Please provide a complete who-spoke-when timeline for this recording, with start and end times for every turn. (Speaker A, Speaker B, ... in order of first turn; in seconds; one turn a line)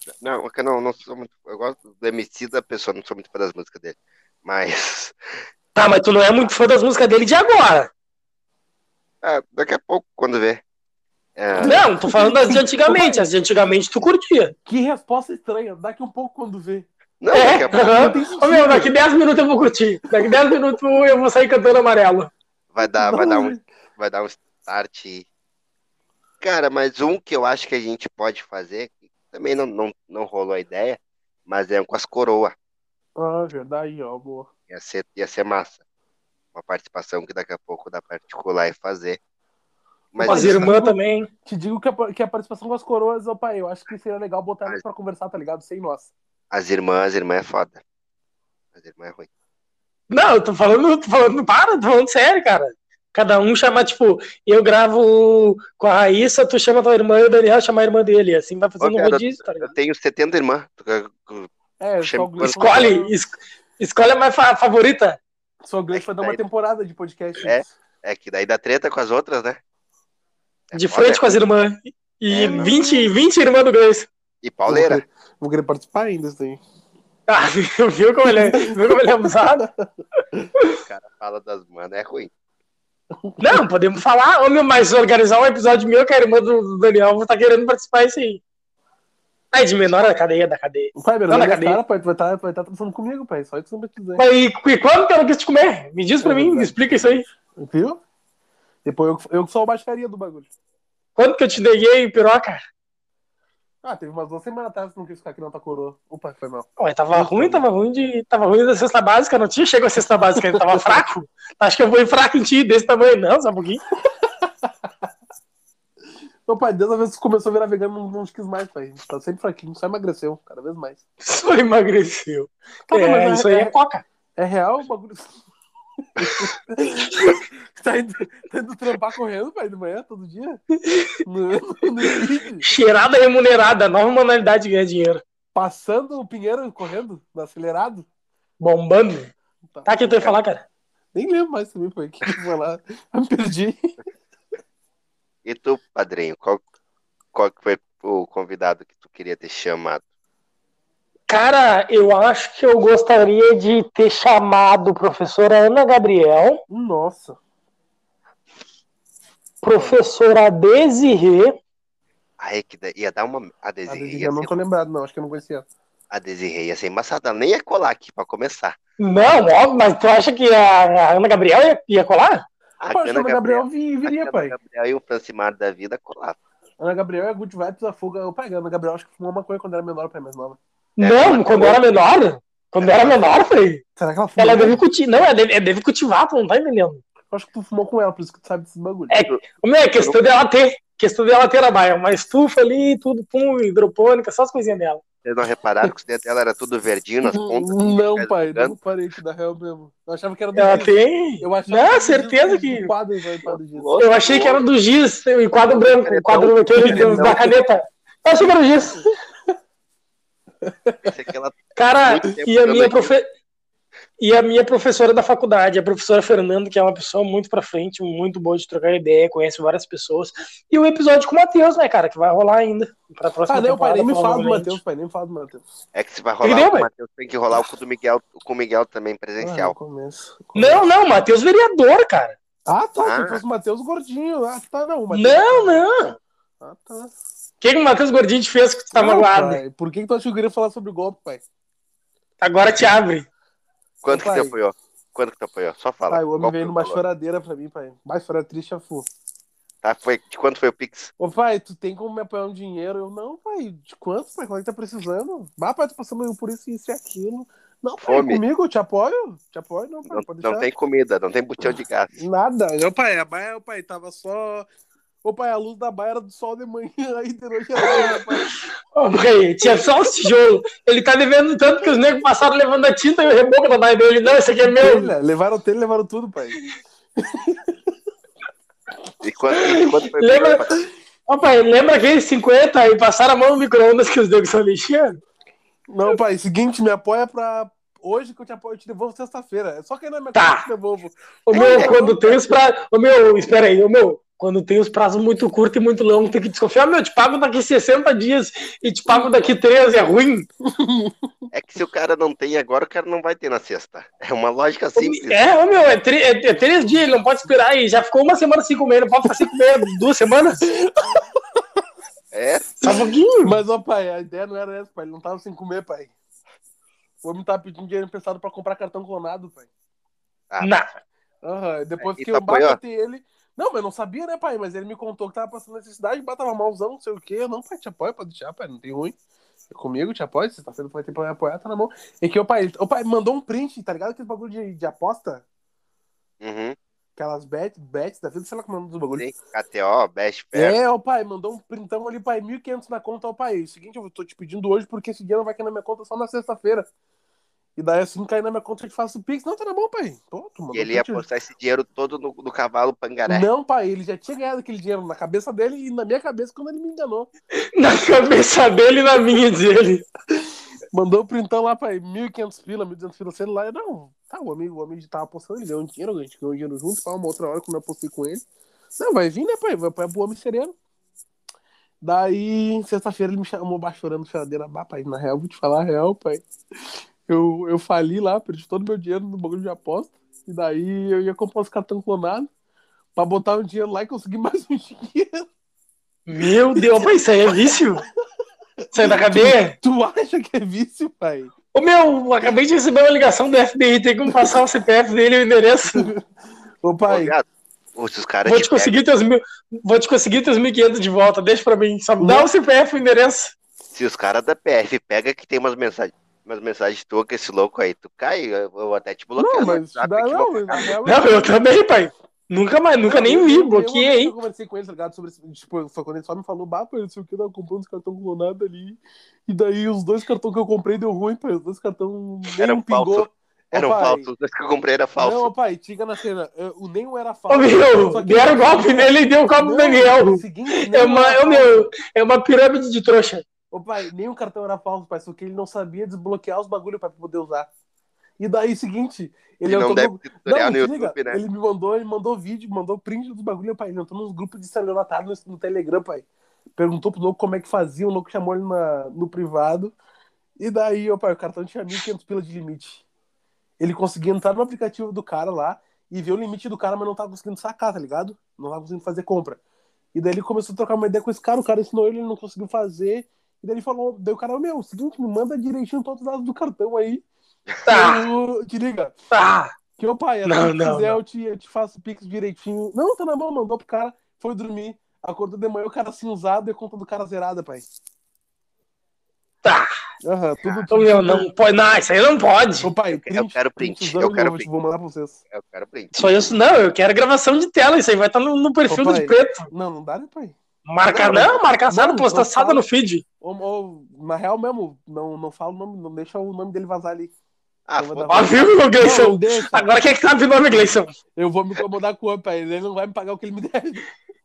Speaker A: 0.2-5.1
Speaker B: 5.7-7.9
Speaker A: 9.2-10.6
Speaker A: 11.3-11.8
Speaker C: 11.6-13.2
Speaker B: 11.6-14.5
Speaker C: 14.6-16.9
Speaker A: 17.2-18.1
Speaker B: 17.3-22.3
Speaker C: 17.7-18.9
Speaker A: 22.7-25.2
Speaker C: 22.9-23.6
Speaker A: 26.4-32.5
Speaker C: 33.2-34.5
Speaker A: 34.7-35.8
Speaker A: 36.5-39.2
Speaker A: 40.1-40.7
Speaker C: 40.2-46.1
Speaker B: 40.2-41.3
Speaker A: 46.5-47.8
Speaker A: 48.7-49.3
Speaker B: 50.1-59.7
Speaker A: 58.8-61.5
Speaker C: 61.8-63.1
Speaker A: 62.0-62.9
Speaker B: 62.5-65.2
Speaker C: 65.6-67.7
Speaker A: 65.9-66.4
Speaker A: 67.4-69.6
Speaker A: 70.7-71.4
Speaker B: 70.7-74.1
Speaker A: 72.3-72.7
Speaker C: 72.4-73.1
Speaker A: 74.4-75.0
Speaker C: 74.7-76.6
Speaker B: 77.3-79.7
Speaker C: 78.2-80.5
Speaker A: 80.8-82.3
Speaker C: 83.2-83.6
Speaker B: 83.4-88.4
Speaker B: 89.5-91.8
Speaker C: 91.0-94.2
Speaker B: 94.2-97.2
Speaker C: 96.2-98.0
Speaker C: 98.8-100.5
Speaker B: 101.2-102.6
Speaker C: 103.8-107.7
Speaker B: 106.8-113.8
Speaker C: 110.4-111.0
Speaker C: 114.1-115.1
Speaker C: 116.5-121.0
Speaker B: 121.2-124.0
Speaker C: 122.9-123.7
Speaker C: 124.4-125.4
Speaker C: 126.2-130.6
Speaker A: 126.2-126.4
Speaker B: 130.8-131.2
Speaker C: 131.2-132.6
Speaker B: 132.6-135.2
Speaker C: 135.5-138.1
Speaker B: 138.6-139.3
Speaker C: 139.7-140.3
Speaker B: 139.8-140.6
Speaker C: 141.1-143.9
Speaker A: 145.4-146.6
Speaker A: 147.3-150.0
Speaker B: 151.3-156.6
Speaker C: 156.7-157.4
Speaker B: 159.6-161.5
Speaker A: 162.4-164.6
Speaker C: 163.8-165.7
Speaker A: 166.1-169.5
Speaker B: 169.0-172.4
Speaker A: 172.8-176.4
Speaker C: 172.9-174.5
Speaker C: 176.8-180.6
Speaker B: 181.0-183.8
Speaker A: 181.0-181.8
Speaker A: 182.8-183.2
Speaker C: 184.0-184.8
Speaker B: 184.4-187.0
Speaker C: 187.3-189.1
Speaker B: 189.1-195.0
Speaker A: 189.1-189.4
Speaker A: 189.9-190.3
Speaker A: 195.2-198.7
Speaker C: 197.2-203.9
Speaker B: 200.6-202.9
Speaker A: 203.7-204.6
Speaker B: 204.0-209.0
Speaker A: 205.6-207.5
Speaker C: 206.8-207.5
Speaker C: 210.6-211.1
Speaker A: 211.0-213.1
Speaker B: 211.8-213.2
Speaker B: 214.2-224.8
Speaker C: 223.5-225.7
Speaker A: 225.9-229.7
Speaker B: 226.4-226.9
Speaker C: 229.4-230.8
Speaker B: 230.5-232.3
Speaker C: 232.7-235.9
Speaker A: 233.0-233.4
Speaker B: 235.1-236.1
Speaker C: 236.6-237.1
Speaker B: 237.6-239.6
Speaker C: 238.9-241.4
Speaker B: 242.4-243.3
Speaker A: 244.0-247.0
Speaker C: 244.1-244.5
Speaker C: 246.1-249.1
Speaker A: 249.8-251.1
Speaker C: 251.2-260.7
Speaker A: 258.0-258.4
Speaker A: 260.1-262.1
Speaker C: 262.1-264.7
Speaker C: 265.2-268.4
Speaker B: 267.9-275.1
Speaker C: 274.6-276.6
Speaker C: 277.2-277.9
Speaker A: 279.2-280.8
Speaker B: 279.8-280.6
Speaker B: 281.3-285.2
Speaker C: 285.9-292.4
Speaker B: 290.3-290.6
Speaker B: 291.4-300.5
Speaker A: 291.5-292.2
Speaker C: 300.6-301.3
Speaker A: 301.5-305.5
Speaker B: 305.0-310.7
Speaker C: 310.7-311.8
Speaker A: 312.3-312.7
Speaker B: 312.8-313.6
Speaker C: 312.9-316.1
Speaker C: 317.2-319.7
Speaker A: 320.5-320.8
Speaker B: 320.6-320.8
Speaker C: 321.4-329.1
Speaker A: 322.0-322.8
Speaker C: 329.7-335.4
Speaker A: 336.4-336.8
Speaker C: 337.2-339.2
Speaker A: 339.1-340.8
Speaker C: 340.5-346.9
Speaker C: 347.8-351.2
Speaker A: 350.7-353.5
Speaker C: 353.3-357.3
Speaker B: 357.8-360.1
Speaker C: 360.9-368.4
Speaker C: 368.9-370.7
Speaker C: 372.0-376.5
Speaker C: 377.3-382.5
Speaker C: 383.1-385.5
Speaker B: 386.3-388.0
Speaker C: 386.7-387.1
Speaker B: 388.9-389.8
Speaker C: 388.9-391.5
Speaker B: 391.7-396.1
Speaker C: 394.3-394.6
Speaker C: 395.9-396.2
Speaker C: 396.8-397.3
Speaker A: 397.1-399.0
Speaker B: 398.4-403.5
Speaker C: 402.2-402.5
Speaker A: 403.9-410.9
Speaker C: 409.4-411.6
Speaker B: 411.0-414.3
Speaker C: 413.0-424.3
Speaker A: 422.4-425.5
Speaker C: 425.2-431.9
Speaker B: 427.5-433.4
Speaker C: 433.7-437.7
Speaker C: 438.4-449.9
Speaker A: 439.6-441.4
Speaker C: 450.6-453.0
Speaker C: 453.8-459.6
Speaker C: 460.1-467.2
Speaker B: 467.9-468.3
Speaker C: 467.9-469.1
Speaker B: 469.3-469.7
Speaker C: 470.0-477.9
Speaker B: 470.4-471.2
Speaker B: 479.6-479.9
Speaker C: 480.2-481.5
Speaker B: 480.9-482.9
Speaker C: 482.8-485.4
Speaker A: 483.1-484.7
Speaker A: 485.5-486.3
Speaker B: 486.1-489.7
Speaker C: 488.9-490.6
Speaker B: 490.9-493.2
Speaker A: 491.0-491.5
Speaker C: 491.3-492.8
Speaker C: 493.4-497.3
Speaker A: 497.9-498.8
Speaker C: 498.0-499.9
Speaker B: 498.3-501.1
Speaker C: 501.3-504.1